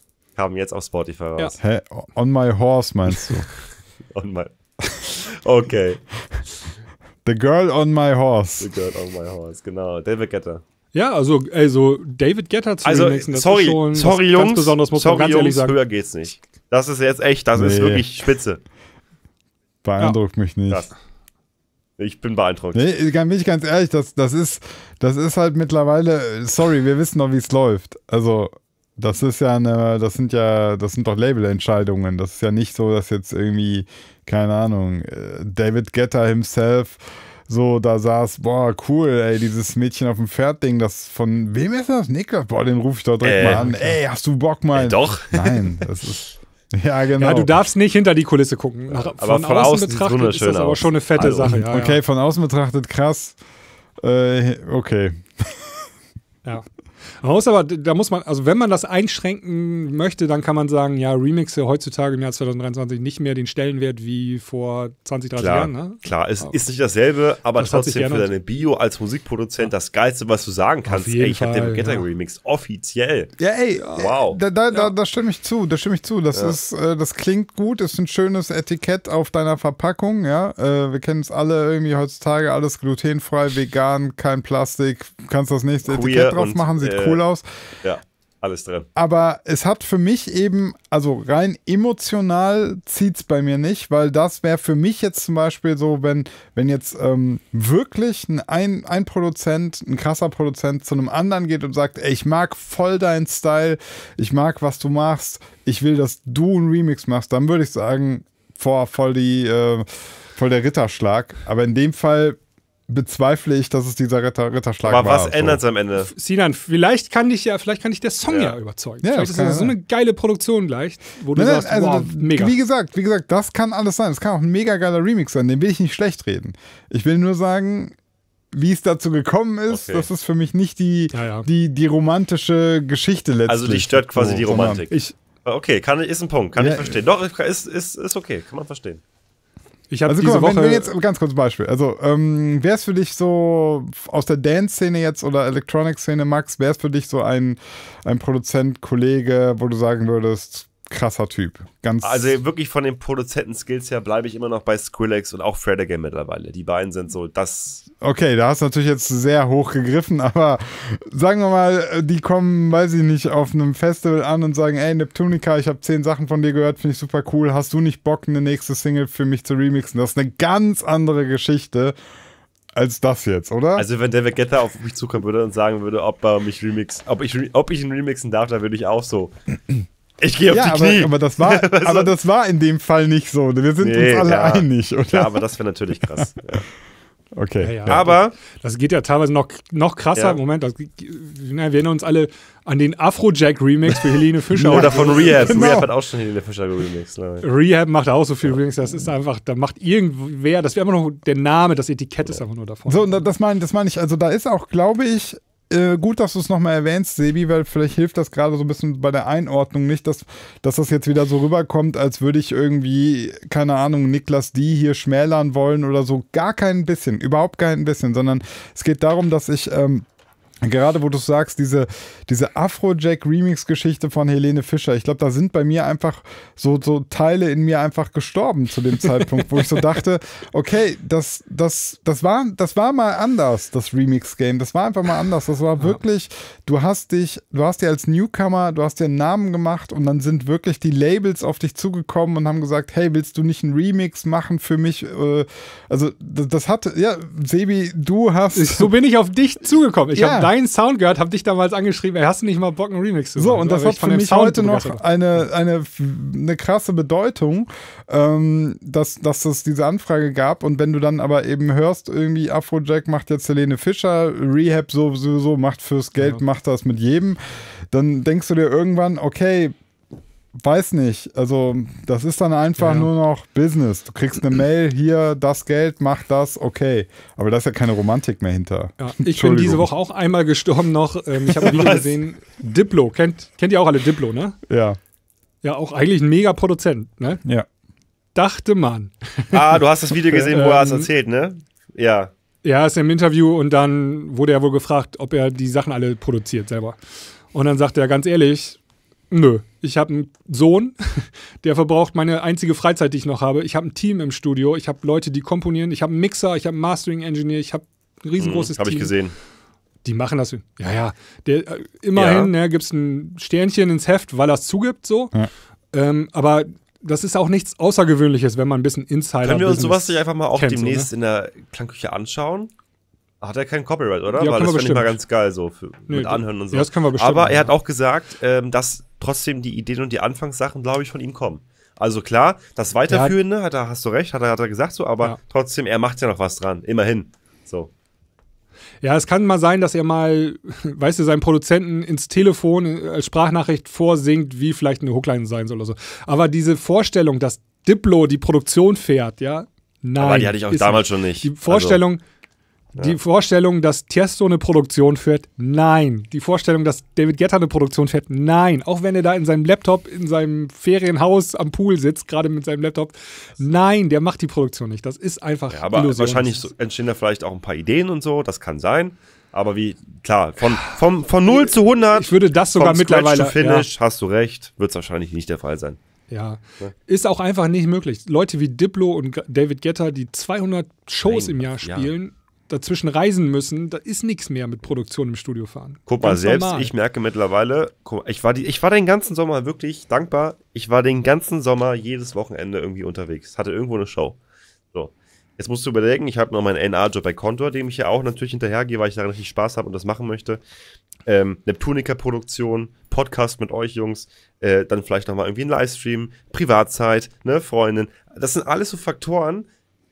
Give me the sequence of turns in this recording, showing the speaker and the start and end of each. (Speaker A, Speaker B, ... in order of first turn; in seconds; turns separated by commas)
Speaker A: 0.4-1.6, Speaker B: 1.6-3.5, Speaker A: 4.1-6.0, Speaker B: 7.2-8.7, Speaker A: 8.6-10.6, Speaker C: 10.9-15.8, Speaker A: 12.8-18.6, Speaker B: 17.6-18.1, Speaker B: 19.8-20.9, Speaker A: 22.0-22.8, Speaker B: 22.7-47.6, Speaker A: 43.2-43.6, Speaker C: 43.4-44.0, Speaker A: 44.7-45.7, Speaker C: 47.2-52.0, Speaker A: 48.9-51.6, Speaker B: 51.5-53.4, Speaker B: 54.0-55.7, Speaker C: 57.2-66.6, Speaker A: 65.4-73.3, Speaker C: 67.6-68.3, Speaker C: 70.9-72.0, Speaker B: 73.4-87.5, Speaker A: 74.0-74.4, Speaker A: 85.9-87.2, Speaker A: 87.8-88.9, Speaker B: 89.0-115.6, Speaker A: 114.8-116.1, Speaker C: 116.0-122.6, Speaker A: 118.3-118.6, Speaker B: 119.0-119.8, Speaker B: 121.3-128.0, Speaker B: 128.5-134.9, Speaker A: 129.7-130.1, Speaker C: 131.1-131.5, Speaker A: 133.5-139.0, Speaker B: 136.6-137.0, Speaker C: 139.9-140.9, Speaker B: 140.1-152.4, Speaker A: 152.0-157.8, Speaker B: 158.0-172.0, Speaker B: 172.8-173.9, Speaker A: 173.8-179.4, Speaker A: 180.2-182.1, Speaker B: 180.5-185.5, Speaker A: 183.8-186.6, Speaker B: 186.0-186.3, Speaker B: 187.4-188.2, Speaker C: 187.6-195.7, Speaker A: 187.9-188.3, Speaker B: 194.6-195.9, Speaker A: 194.7-197.5, Speaker C: 197.4-203.3, Speaker B: 202.9-220.1, Speaker B: 220.6-248.9, Speaker C: 248.5-255.0, Speaker B: 250.1-250.5, Speaker B: 253.4-267.4, Speaker B: 267.9-269.8, Speaker B: 270.5-279.9, Speaker C: 272.8-273.1, Speaker C: 279.0-284.6, Speaker A: 281.6-282.1, Speaker B: 284.7-285.0, Speaker C: 285.6-287.4, Speaker C: 288.4-289.6, Speaker A: 289.5-292.3, Speaker C: 290.5-291.1, Speaker C: 292.6-297.0, Speaker C: 297.5-298.8, Speaker C: 299.3-309.1, Speaker A: 308.4-309.3, Speaker C: 310.0-315.3, Speaker A: 312.1-312.5, Speaker C: 315.9-321.1, Speaker A: 319.4-322.7, Speaker A: 323.4-337.9, Speaker C: 324.4-325.2, Speaker C: 326.1-327.7, Speaker C: 333.1-333.4, Speaker C: 339.0-352.2, Speaker A: 350.2-352.0, Speaker C: 353.0-366.7, Speaker A: 365.7-376.0, Speaker C: 370.6-373.9, Speaker C: 376.3-386.9, Speaker A: 381.2-382.1, Speaker A: 386.1-394.4, Speaker A: 394.9-400.6, Speaker A: 401.3-409.7